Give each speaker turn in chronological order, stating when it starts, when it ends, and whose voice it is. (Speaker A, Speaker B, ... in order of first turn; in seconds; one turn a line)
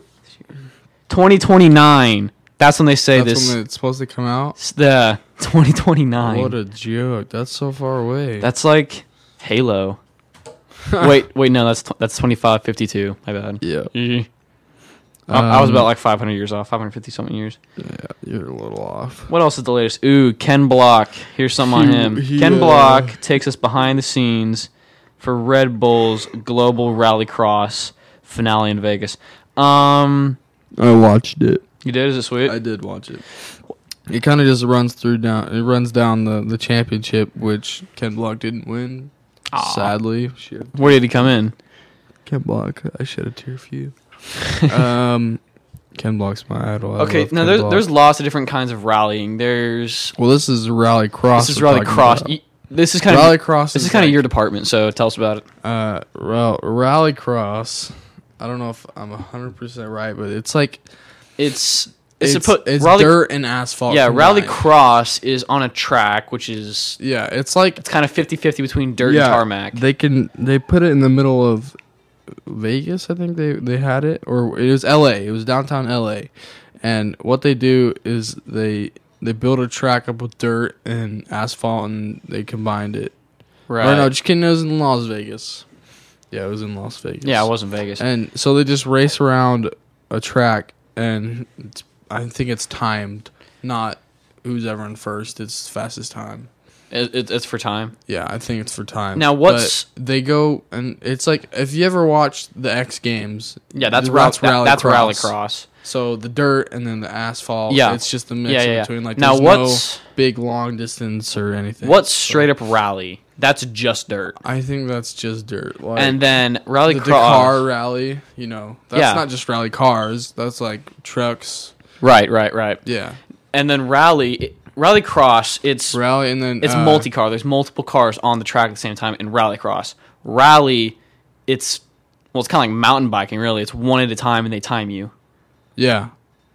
Speaker A: 1.1-3.6
Speaker B: 3.1-4.6
Speaker A: 4.6-6.5
Speaker B: 6.2-8.5
Speaker A: 8.4-10.0
Speaker B: 10.9-11.1
Speaker A: 11.0-14.3
Speaker B: 13.6-13.9
Speaker B: 15.3-15.9
Speaker A: 15.3-17.6
Speaker B: 17.8-19.3
Speaker A: 19.3-24.7
Speaker B: 21.7-23.2
Speaker A: 25.2-30.4
Speaker B: 30.8-31.6
Speaker A: 31.8-32.5
Speaker B: 32.5-33.2
Speaker B: 34.1-40.7
Speaker A: 39.5-39.9
Speaker A: 40.7-41.5
Speaker B: 42.2-43.9
Speaker B: 44.5-45.4
Speaker B: 46.0-47.9
Speaker A: 47.0-50.1
Speaker B: 50.2-52.3
Speaker A: 51.3-55.4
Speaker B: 53.1-54.2
Speaker B: 55.6-60.8
Speaker A: 61.4-63.2
Speaker B: 62.2-64.6
Speaker A: 63.9-67.0
Speaker B: 67.0-67.8
Speaker A: 67.8-69.8
Speaker B: 69.0-71.7
Speaker B: 72.5-76.3
Speaker B: 76.8-83.1
Speaker A: 83.7-84.1
Speaker B: 83.8-85.6
Speaker B: 86.3-96.5
Speaker A: 87.2-88.0
Speaker A: 96.9-97.9
Speaker B: 98.1-105.3
Speaker A: 99.2-99.8
Speaker A: 103.7-105.7
Speaker B: 105.8-112.5
Speaker A: 107.7-110.0
Speaker A: 111.8-114.4
Speaker B: 114.4-116.2
Speaker A: 116.0-117.6
Speaker B: 116.8-121.7
Speaker A: 118.9-119.2
Speaker A: 122.0-122.8
Speaker B: 122.8-123.2
Speaker A: 123.5-126.0
Speaker B: 125.9-127.1
Speaker A: 126.6-130.9
Speaker A: 131.5-131.8
Speaker A: 132.3-135.1
Speaker B: 135.8-136.1